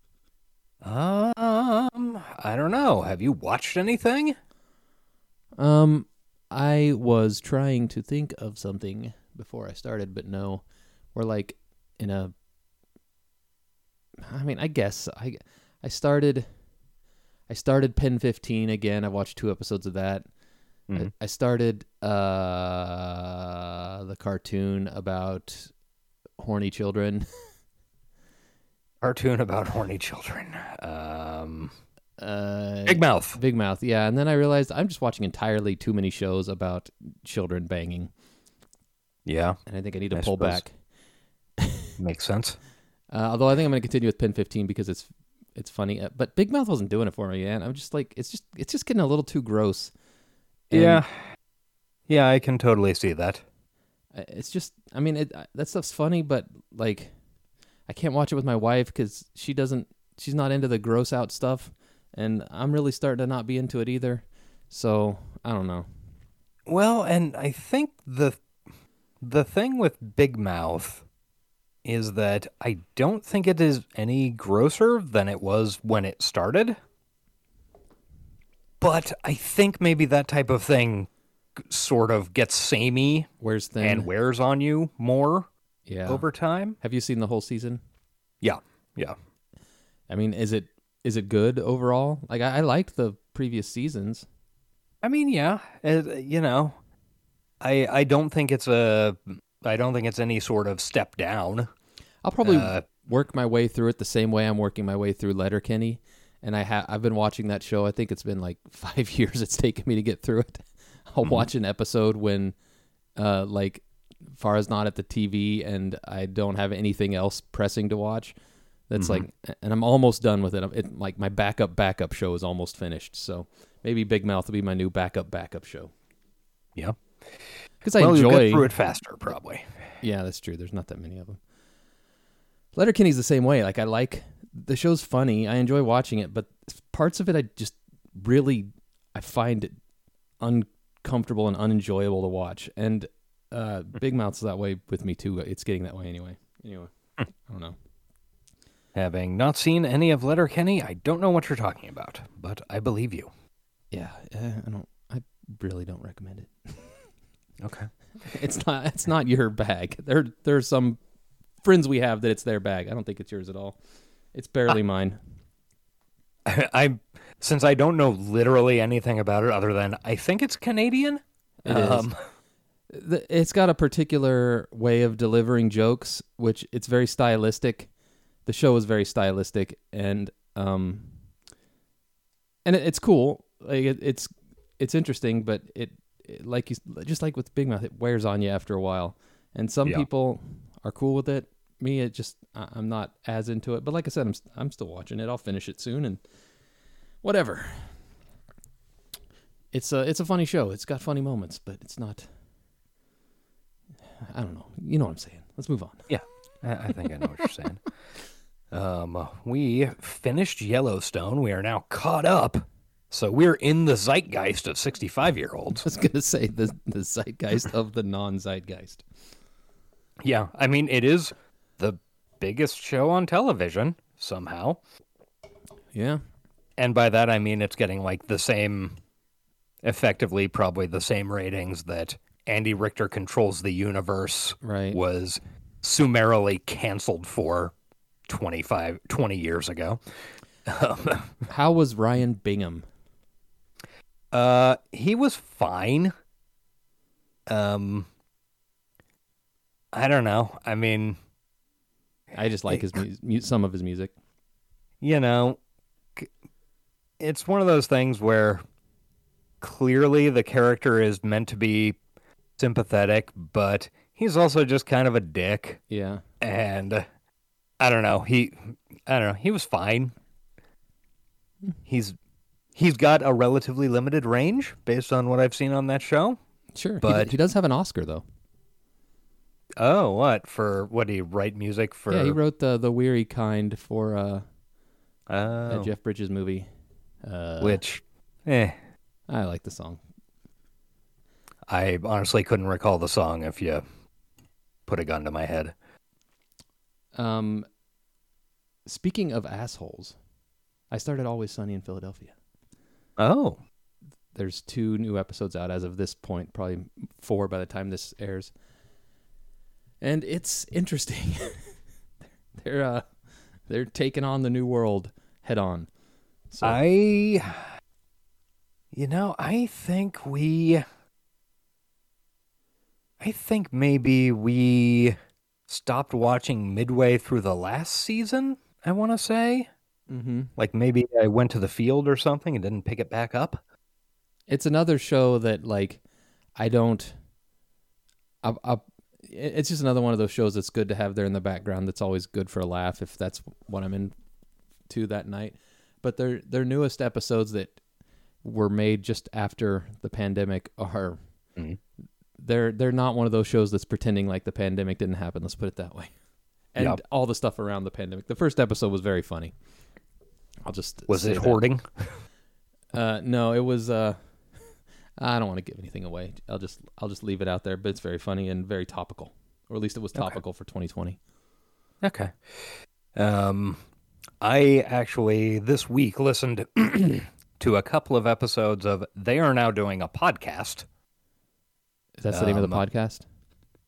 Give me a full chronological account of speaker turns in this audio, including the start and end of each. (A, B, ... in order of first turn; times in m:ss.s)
0:00.8-0:04.4 A
0:05.6-0:10.6 B
0:11.2-0:12.3 B
0:14.2-0:16.5 B
0:17.5-0:20.3 B
0:20.9-0:25.7 B
0:26.4-0:27.3 B
0:29.0-0:31.8 A
0:32.2-0:38.1 B
0:32.9-0:33.4 A
0:39.2-0:39.6 A
0:39.7-0:40.7 B
0:40.1-0:40.6 A
0:41.6-0:41.9 B
0:42.0-0:42.6 A
0:43.1-0:49.9 B
0:50.7-0:51.0 B
0:50.7-0:51.2 A
0:52.1-0:53.4 A
0:54.1-0:57.1 B
0:57.9-1:05.9 B
1:06.7-1:08.4 A
1:09.2-1:11.0 A
1:11.8-1:16.8 A
1:18.8-1:25.5 A
1:23.4-1:24.1 B
1:25.9-1:26.3 B
1:26.1-1:26.8 A
1:26.8-1:27.8 B
1:28.4-1:29.2 A
1:30.1-1:34.3 B
1:35.0-1:36.8 A
1:37.6-1:41.7 A
1:42.2-1:52.6 B
1:42.4-1:42.9 A
1:51.2-1:51.5 A
1:53.2-1:58.3 B
1:58.9-2:05.9 B
1:59.0-1:59.3 A
2:06.8-2:07.0 A
2:07.8-2:08.7 B
2:08.0-2:09.7 A
2:10.0-2:11.4 B
2:12.8-2:19.8 B
2:20.4-2:26.9 B
2:27.5-2:27.8 B
2:28.9-2:33.3 A
2:33.9-2:36.9 B
2:37.6-2:37.9 A
2:38.2-2:41.0 B
2:41.6-2:43.8 B
2:44.3-2:45.2 B
2:46.4-2:52.2 A
2:51.6-2:52.1 B
2:52.9-2:57.9 B
2:58.5-3:01.1 B
3:02.6-3:16.2 B
3:17.2-3:17.9 B
3:19.7-3:22.3 B
3:24.2-3:26.0 B
3:26.1-3:27.8 A
3:28.7-3:35.9 A
3:35.8-3:39.0 B
3:40.2-3:44.8 A
3:45.9-3:46.2 B
3:46.8-3:49.0 A
3:49.8-3:57.7 A
3:54.6-3:55.0 B
3:58.3-4:00.0 A
4:00.6-4:01.4 A
4:01.5-4:02.8 B
4:04.3-4:06.1 A
4:07.5-4:08.1 A
4:09.9-4:11.2 A
4:12.3-4:14.1 B
4:12.7-4:13.0 A
4:15.0-4:15.6 A
4:17.2-4:18.6 A
4:19.6-4:22.0 A
4:22.6-4:25.8 A
4:25.9-4:26.2 B
4:26.4-4:27.1 A
4:27.8-4:30.1 A
4:31.9-4:32.2 A
4:32.8-4:36.4 A
4:36.8-4:38.2 B
4:37.0-4:37.4 A
4:39.8-4:42.4 A
4:42.1-4:44.4 B
4:45.3-4:45.9 A
4:45.7-4:46.7 B
4:47.2-4:47.8 B
4:47.6-4:48.8 A
4:49.3-4:50.0 B
4:51.7-4:53.8 A
4:54.9-4:55.8 A
4:57.2-4:57.7 B
4:58.9-5:00.2 B
5:00.9-5:02.3 B
5:03.2-5:03.6 A
5:04.4-5:08.5 B
5:10.0-5:11.7 B
5:12.6-5:13.0 B
5:13.7-5:15.9 B
5:16.5-5:16.8 B
5:16.6-5:17.7 A
5:18.9-5:20.8 A
5:23.2-5:25.2 A
5:25.7-5:29.7 A
5:30.1-5:30.5 B
5:30.6-5:33.6 A
5:34.5-5:36.0 B
5:36.6-5:37.2 B
5:38.4-5:44.1 B
5:44.9-5:47.8 B
5:48.4-5:51.2 B
5:52.4-5:56.1 B
5:56.7-5:59.5 B
6:00.6-6:01.6 B
6:01.1-6:02.1 A
6:02.9-6:04.2 B
6:05.2-6:11.2 B
6:12.0-6:13.8 A
6:14.4-6:20.9 A
6:22.2-6:23.2 B
6:22.3-6:22.8 A